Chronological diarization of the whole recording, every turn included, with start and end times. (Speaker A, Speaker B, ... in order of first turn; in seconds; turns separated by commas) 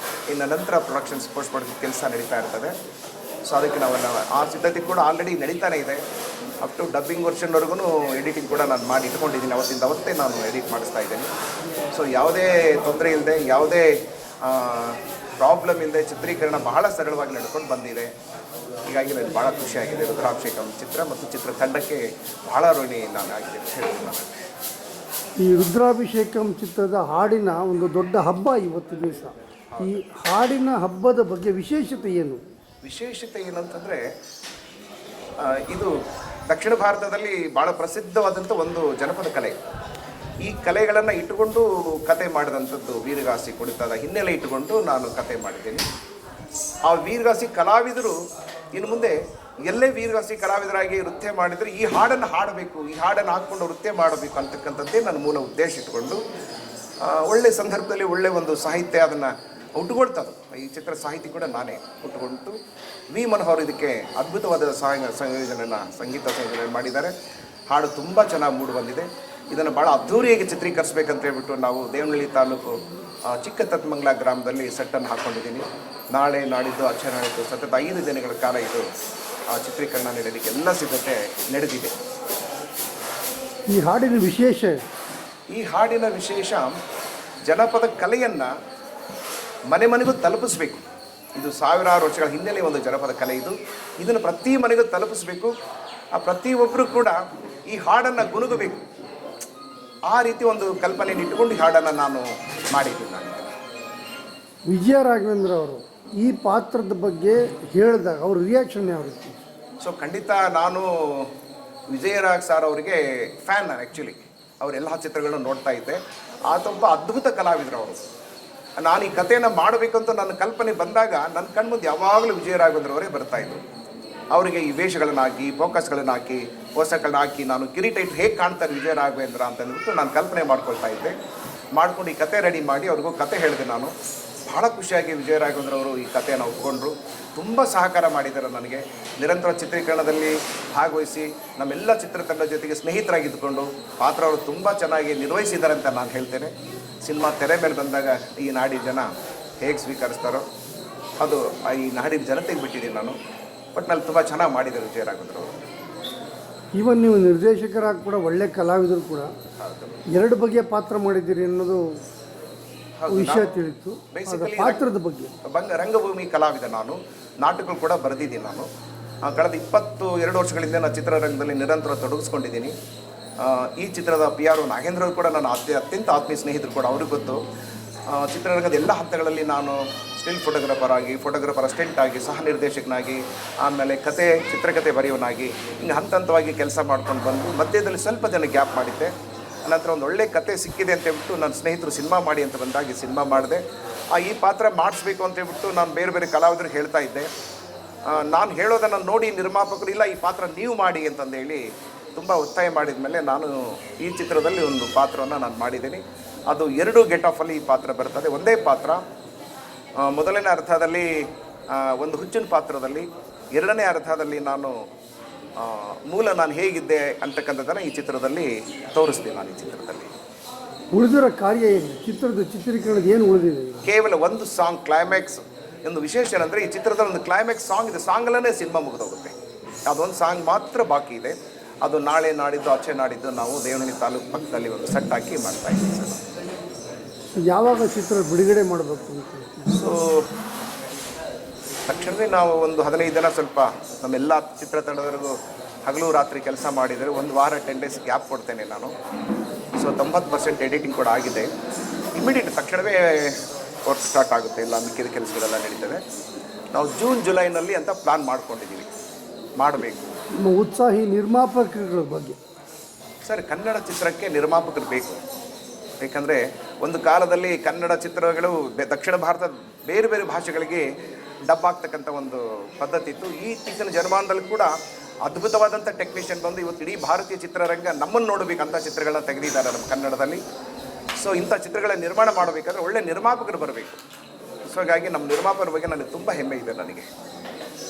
Speaker A: 0.3-2.7, Speaker A: 3.5-6.0, Speaker A: 6.6-11.3, Speaker A: 11.9-18.1, Speaker A: 18.9-24.4, Speaker B: 25.4-32.4, Speaker A: 29.7-30.0, Speaker A: 32.8-34.0, Speaker A: 35.4-35.9, Speaker A: 36.5-39.5, Speaker A: 40.4-45.9, Speaker A: 46.9-48.2, Speaker A: 48.8-56.2, Speaker A: 57.0-62.5, Speaker A: 63.1-67.1, Speaker A: 67.7-72.8, Speaker A: 73.3-78.8, Speaker A: 79.5-81.9, Speaker B: 83.7-84.8, Speaker A: 85.5-86.8, Speaker A: 87.5-88.5, Speaker A: 89.7-90.8, Speaker A: 91.4-95.5, Speaker A: 96.2-97.2, Speaker A: 97.7-98.8, Speaker A: 100.1-103.5, Speaker B: 104.7-109.4, Speaker A: 109.8-111.3, Speaker A: 111.9-118.0, Speaker A: 118.8-123.6, Speaker A: 124.3-131.1, Speaker A: 131.8-133.9, Speaker A: 134.5-146.5, Speaker A: 147.0-149.1, Speaker A: 149.6-150.4, Speaker A: 151.2-153.2, Speaker A: 153.8-155.5, Speaker B: 156.8-159.3, Speaker A: 159.6-160.0, Speaker B: 160.2-161.8, Speaker A: 163.0-163.5, Speaker B: 163.1-165.3, Speaker A: 164.1-164.9, Speaker A: 165.5-168.7, Speaker A: 169.3-172.7, Speaker A: 173.4-177.4, Speaker A: 178.1-189.1, Speaker A: 189.7-193.6, Speaker A: 194.1-197.3, Speaker A: 198.1-201.6, Speaker A: 202.2-203.5, Speaker A: 204.0-209.0, Speaker A: 210.0-211.1, Speaker A: 211.7-214.8, Speaker A: 215.6-220.1, Speaker B: 220.9-223.8, Speaker A: 223.9-229.3, Speaker A: 229.9-236.2, Speaker B: 237.5-239.8, Speaker A: 239.7-240.2, Speaker A: 241.9-245.3, Speaker A: 245.9-248.9, Speaker A: 249.8-251.5, Speaker A: 252.2-256.0, Speaker A: 256.7-258.9, Speaker A: 259.6-260.2, Speaker B: 260.5-262.4, Speaker A: 263.3-265.2, Speaker A: 266.0-270.9, Speaker A: 271.5-274.7, Speaker A: 275.2-280.4, Speaker A: 281.2-284.0, Speaker A: 284.7-287.1